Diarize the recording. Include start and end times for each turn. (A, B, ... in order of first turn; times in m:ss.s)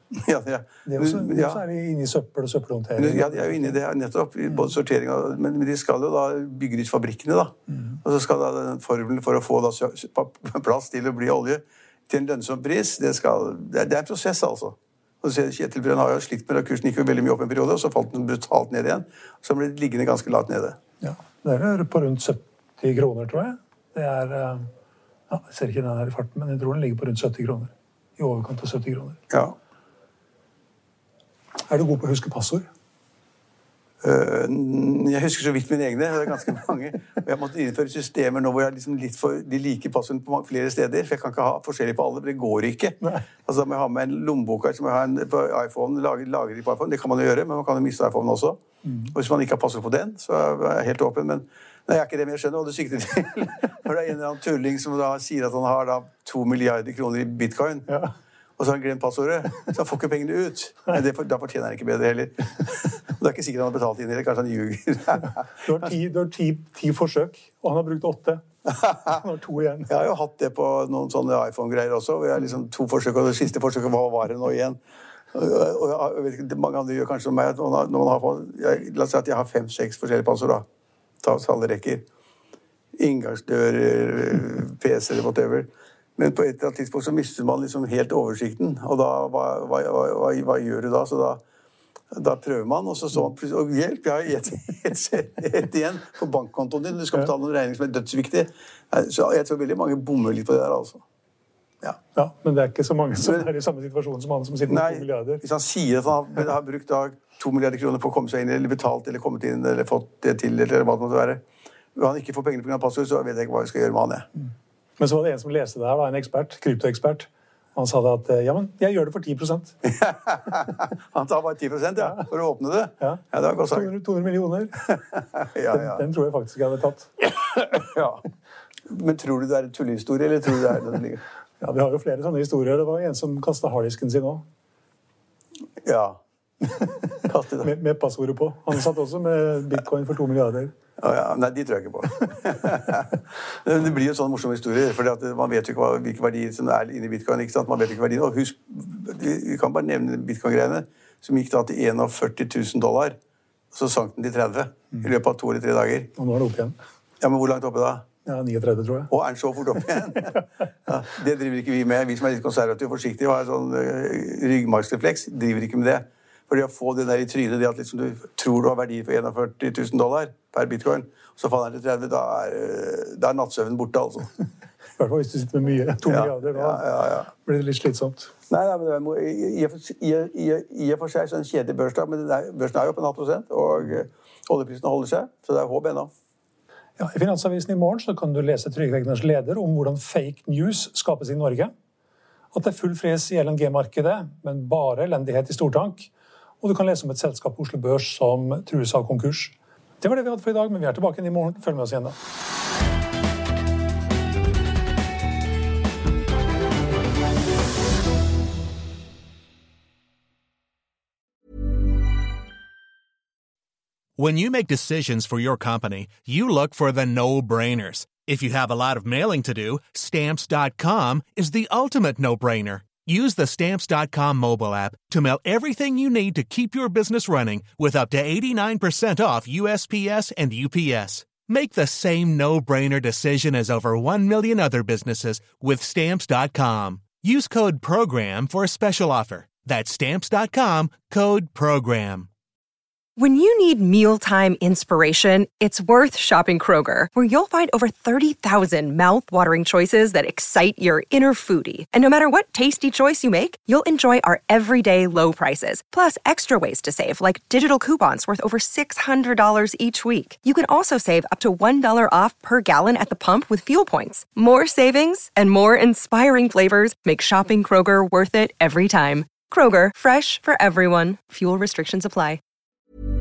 0:00.2-0:01.6 A
0:00.8-0:03.8 B
0:03.0-0:20.8 A
0:21.0-0:24.6 B
0:25.3-0:29.2 B
0:29.3-0:29.6 A
0:31.7-0:32.7 B
0:34.0-0:48.6 A
0:48.9-0:49.1 B
0:49.1-0:57.8 A
0:58.6-1:05.4 A
1:05.6-1:08.4 B
1:09.0-1:09.9 B
1:09.9-1:14.8 A
1:15.3-1:20.6 A
1:21.2-1:22.0 A
1:23.0-1:31.4 A
1:32.1-1:41.0 A
1:42.1-1:45.4 B
1:43.2-1:43.5 A
1:44.7-1:51.4 A
1:52.0-1:54.3 A
1:55.0-1:59.8 B
1:59.9-2:03.9 A
2:02.0-2:02.2 B
2:03.0-2:04.9 B
2:05.4-2:06.1 A
2:05.7-2:07.3 B
2:07.6-2:08.2 A
2:08.9-2:11.2 A
2:11.6-2:14.4 B
2:15.8-2:16.2 A
2:17.2-2:17.7 A
2:17.6-2:20.7 B
2:21.0-2:33.2 A
2:33.7-2:36.1 A
2:36.2-2:36.8 B
2:37.2-2:38.0 A
2:38.2-2:39.1 B
2:39.1-2:54.3 A
2:55.0-2:58.3 B
2:56.1-2:57.3 A
2:58.5-3:06.1 A
3:07.0-3:11.7 B
3:12.5-3:22.2 B
3:34.2-4:02.3 C
4:03.2-4:32.4 D